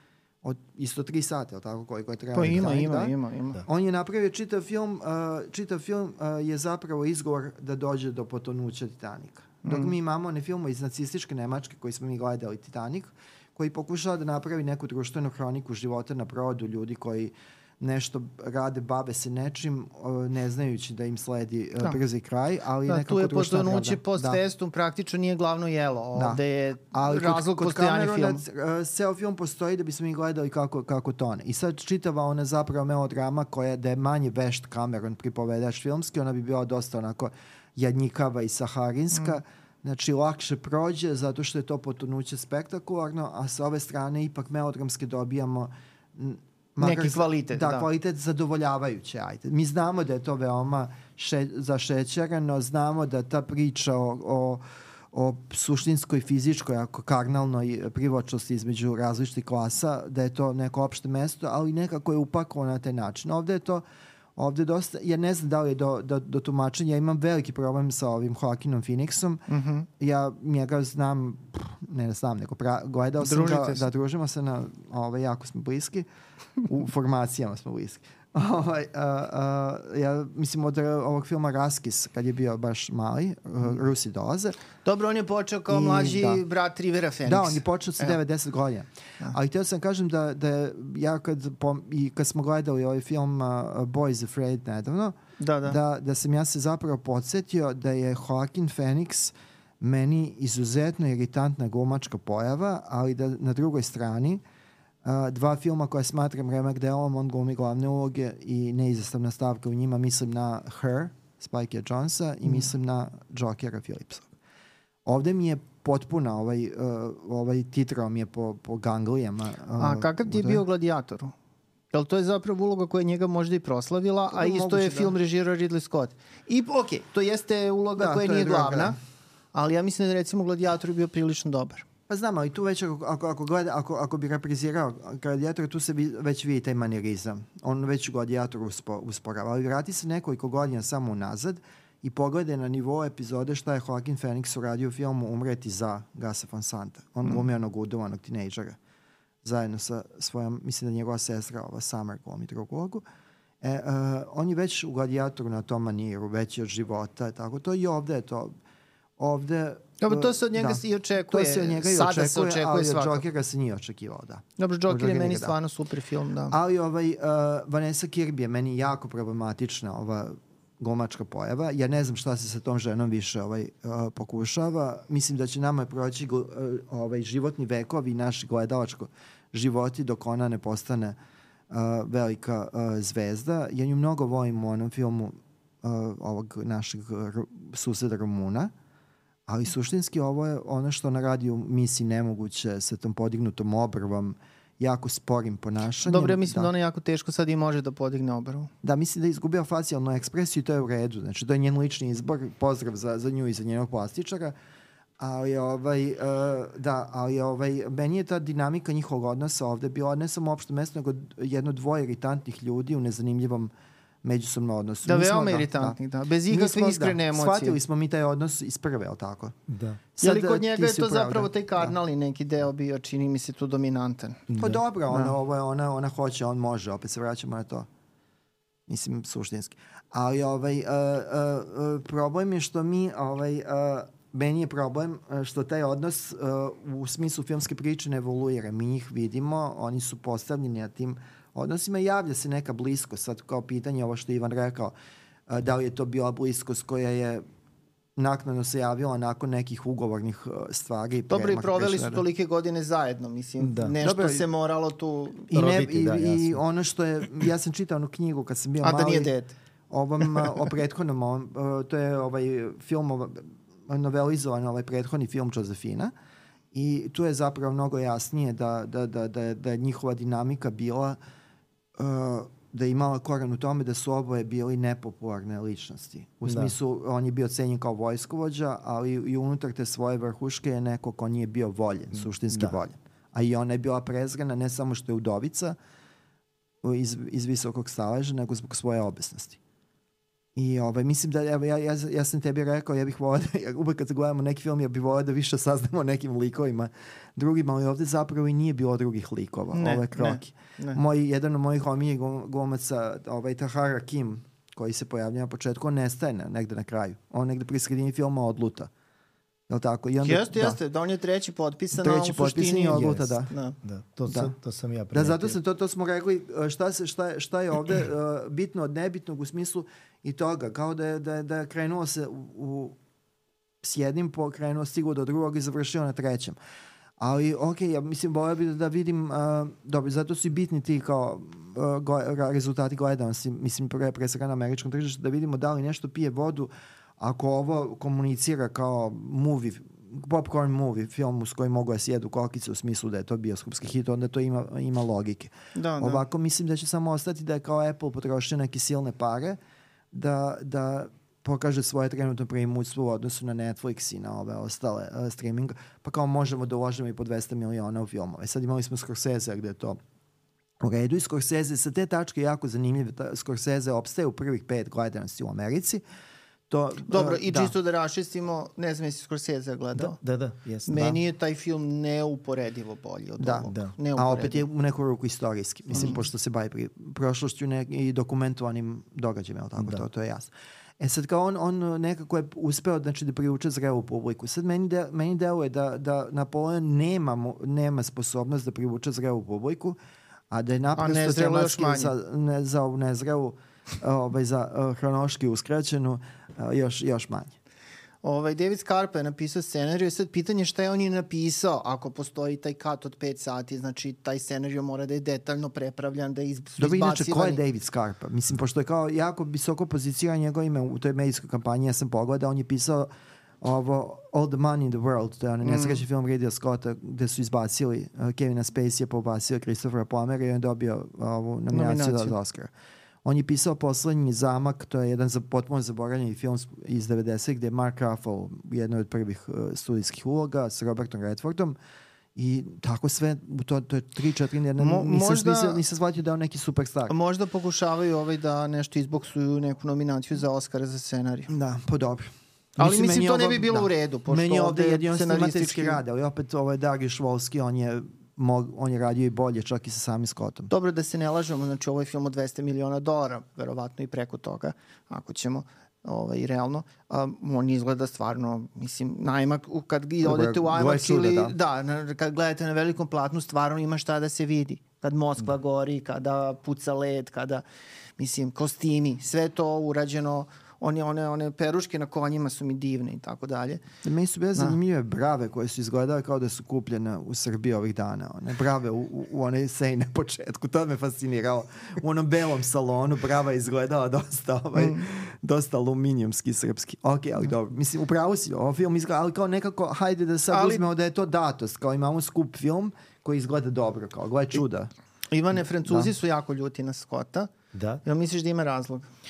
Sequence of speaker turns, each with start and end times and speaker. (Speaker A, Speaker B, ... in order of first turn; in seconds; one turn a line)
Speaker A: 0.4-24.4
Speaker B: 2.4-3.6
Speaker B: 9.6-9.9
Speaker B: 22.9-28.4
Speaker A: 26.1-63.8
Speaker B: 46.8-47.9
Speaker A: 64.4-69.5
Speaker B: 69.5-69.9
Speaker A: 70.0-76.1
Speaker B: 73.2-73.8
Speaker A: 76.6-84.6
Speaker B: 84.8-88.2
Speaker A: 85.7-86.4
Speaker A: 87.3-104.4
Speaker B: 95.4-95.8
Speaker A: 105.0-114.3
Speaker A: 115.0-120.6
Speaker B: 119.8-121.3
Speaker B: 121.9-129.0
Speaker A: 124.3-125.1
Speaker A: 128.0-129.0
Speaker B: 129.5-131.9
Speaker A: 132.1-148.8
Speaker A: 149.4-153.0
Speaker A: 153.6-158.5
Speaker A: 159.2-165.6
Speaker B: 160.0-163.2
Speaker B: 164.6-166.6
Speaker A: 166.5-181.2
Speaker A: 181.7-188.7
Speaker A: 189.5-196.7
Speaker B: 196.1-198.7
Speaker A: 198.8-204.6
Speaker A: 205.2-213.7
Speaker A: 214.2-219.6
Speaker B: 215.1-217.8
Speaker C: 219.7-220.0
Speaker A: 220.1-221.9
Speaker B: 220.2-224.4
Speaker C: 224.5-224.8
Speaker A: 224.6-227.9
Speaker A: 228.9-244.9
Speaker A: 245.5-247.4
Speaker A: 248.2-252.2
Speaker B: 251.3-255.5
Speaker C: 253.6-253.9
Speaker A: 254.0-254.4
Speaker A: 255.5-259.3
Speaker C: 255.5-256.6
Speaker B: 258.8-259.6
Speaker A: 259.9-266.1
Speaker B: 260.2-260.5
Speaker A: 266.7-271.2
Speaker A: 272.0-285.8
Speaker C: 276.4-276.7
Speaker C: 282.5-282.8
Speaker A: 286.8-289.6
Speaker A: 290.6-308.9
Speaker B: 299.7-301.0
Speaker A: 309.7-310.8
Speaker B: 310.2-313.8
Speaker A: 311.9-313.5
Speaker C: 312.9-315.6
Speaker A: 315.1-323.0
Speaker A: 323.8-326.6
Speaker A: 327.2-349.6
Speaker B: 345.7-346.2
Speaker A: 350.1-360.0
Speaker A: 360.8-366.0
Speaker A: 366.7-367.7
Speaker B: 367.1-370.2
Speaker C: 370.0-371.2
Speaker B: 370.9-374.6
Speaker A: 373.4-390.0
Speaker C: 373.7-373.9
Speaker A: 390.5-397.6
Speaker B: 390.9-392.1
Speaker B: 398.2-407.6
Speaker A: 406.8-413.1
Speaker A: 413.6-422.7
Speaker B: 415.6-416.0
Speaker B: 421.7-422.4
Speaker A: 423.2-431.8
Speaker A: 432.4-437.1
Speaker B: 434.8-435.8
Speaker B: 437.1-441.6
Speaker A: 441.5-450.7
Speaker B: 442.8-446.0
Speaker B: 450.7-467.6
Speaker A: 460.2-461.6
Speaker B: 468.2-473.8
Speaker A: 474.0-494.9
Speaker B: 490.5-490.9
Speaker B: 495.3-497.5
Speaker C: 497.7-498.0
Speaker B: 498.0-499.1